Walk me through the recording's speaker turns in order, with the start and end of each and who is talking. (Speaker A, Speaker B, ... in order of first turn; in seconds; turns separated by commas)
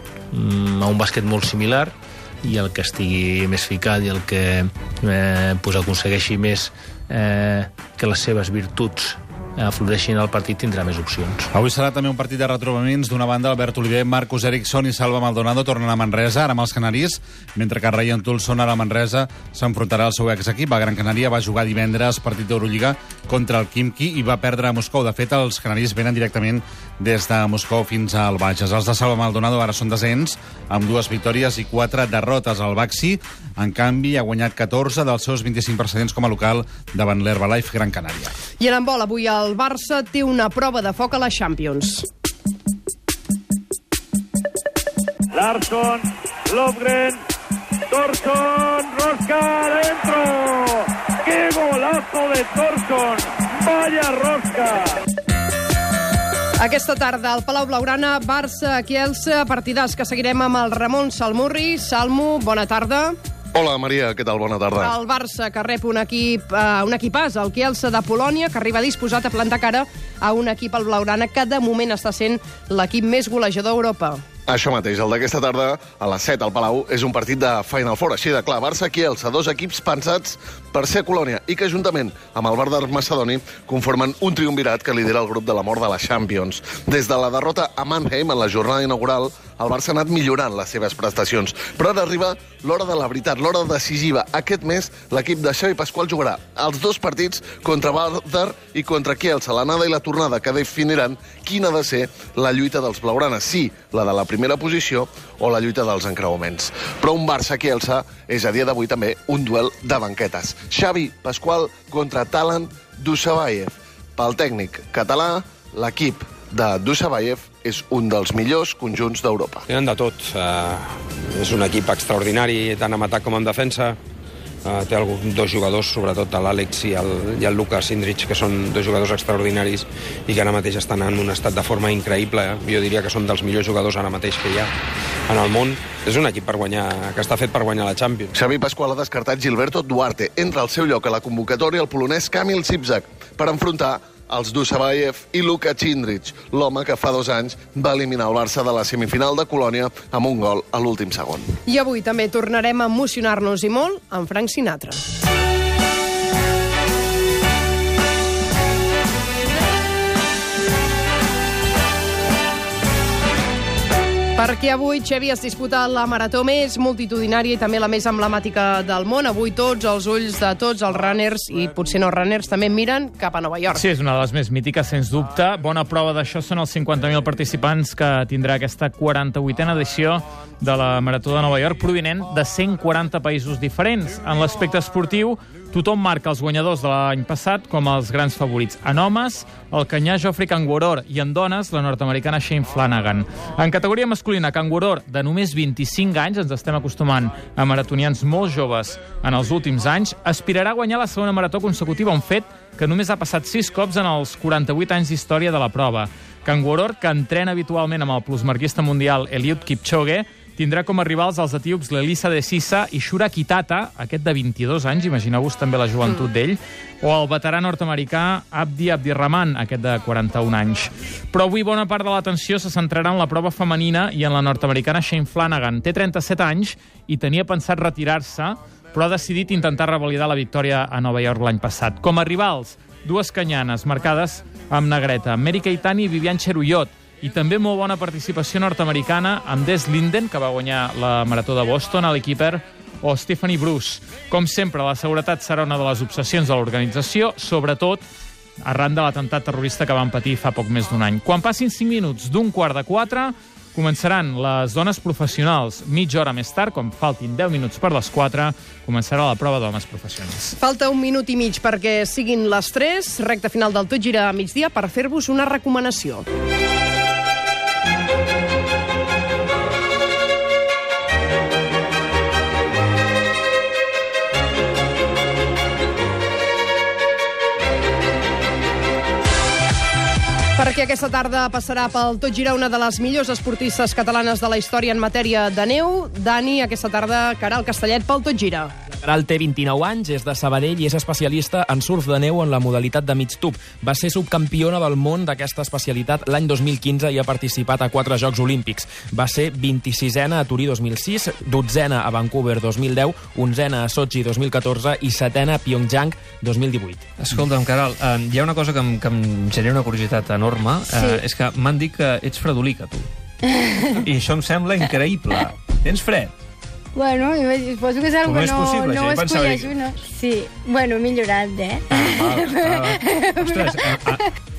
Speaker A: 0.3-11.5, Speaker B: 11.5-38.3, Speaker C: 38.6-42.1, Speaker D: 45.4-46.0, Speaker D: 46.5-47.2, Speaker D: 47.9-54.7, Speaker C: 56.6-63.1, Speaker E: 63.5-64.9, Speaker C: 64.8-74.2, Speaker E: 74.5-119.7, Speaker F: 119.7-124.0, Speaker F: 124.7-134.7, Speaker F: 135.3-138.3, Speaker E: 138.3-151.5, Speaker C: 151.7-155.0, Speaker C: 164.4-173.8, Speaker G: 173.7-248.0, Speaker G: 248.6-260.6, Speaker C: 260.6-266.3, Speaker C: 280.6-288.7, Speaker H: 289.0-307.0, Speaker I: 307.2-313.1, Speaker I: 314.0-315.9, Speaker A: 314.1-315.1, Speaker A: 315.9-316.3, Speaker J: 317.0-323.6, Speaker A: 318.2-319.8, Speaker A: 321.9-324.2